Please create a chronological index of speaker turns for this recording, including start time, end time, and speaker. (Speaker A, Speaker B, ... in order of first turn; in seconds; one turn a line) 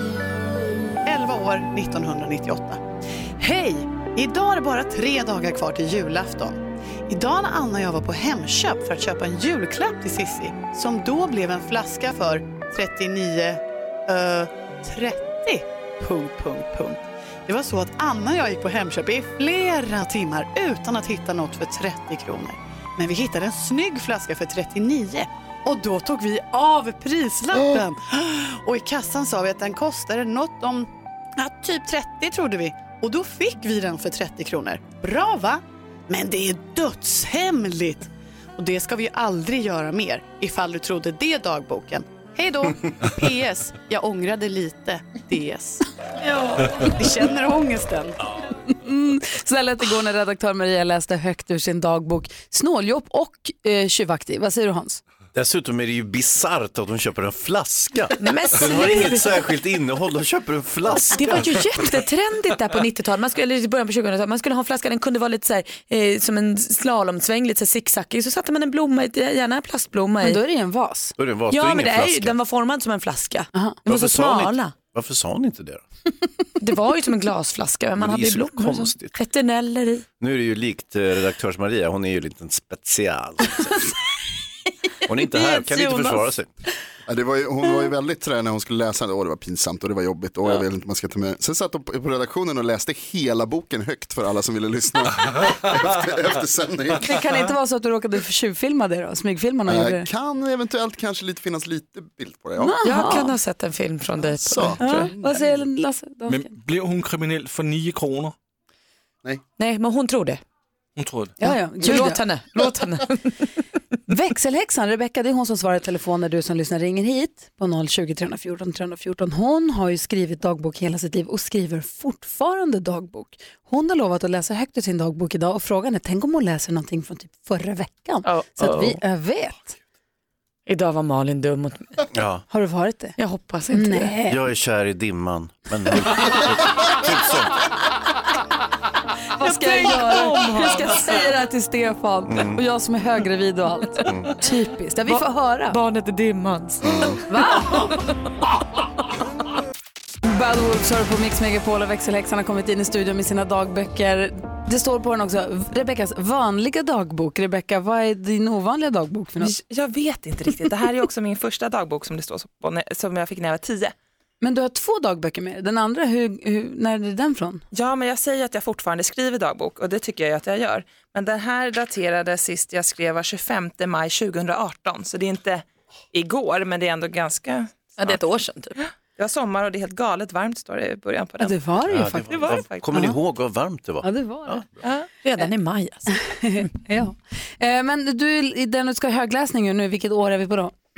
Speaker A: 1.1-2.8
Speaker A: 3.4-45.8
Speaker A: 46.8-48.2
Speaker B: 48.7-55.0
Speaker C: 55.3-61.6
Speaker D: 58.2-59.3
Speaker D: 61.1-70.4
Speaker B: 70.2-71.1
Speaker C: 71.2-72.3
Speaker D: 71.5-74.7
Speaker C: 73.9-75.8
Speaker D: 76.6-80.0
Speaker C: 78.0-79.2
Speaker C: 80.2-83.8
Speaker C: 85.1-86.5
Speaker B: 85.5-86.1
Speaker E: 87.1-97.2
Speaker B: 97.0-100.1
Speaker E: 99.7-102.8
Speaker B: 102.6-103.4
Speaker D: 102.8-105.1
Speaker E: 104.2-105.4
Speaker B: 104.8-106.5
Speaker F: 106.3-108.3
Speaker D: 109.6-110.4
Speaker F: 111.0-111.4
Speaker B: 111.4-112.2
Speaker D: 111.4-113.5
Speaker B: 114.1-129.8
Speaker D: 128.2-129.0
Speaker D: 130.7-132.0
Speaker C: 132.1-132.5
Speaker B: 132.5-133.1
Speaker D: 133.2-134.2
Speaker B: 133.7-134.4
Speaker C: 134.2-137.6
Speaker B: 139.4-145.8
Speaker D: 139.4-141.1
Speaker C: 142.3-142.6
Speaker C: 144.1-144.4
Speaker D: 145.1-147.9
Speaker C: 146.9-147.2
Speaker B: 147.3-148.0
Speaker B: 150.2-159.6
Speaker G: 159.4-163.9
Speaker B: 164.4-167.6
Speaker G: 167.7-178.2
Speaker D: 178.0-178.8
Speaker G: 178.8-181.6
Speaker B: 181.4-183.2
Speaker C: 181.8-184.7
Speaker G: 182.3-182.9
Speaker B: 184.0-184.6
Speaker G: 184.8-185.1
Speaker D: 185.2-186.2
Speaker B: 186.2-190.7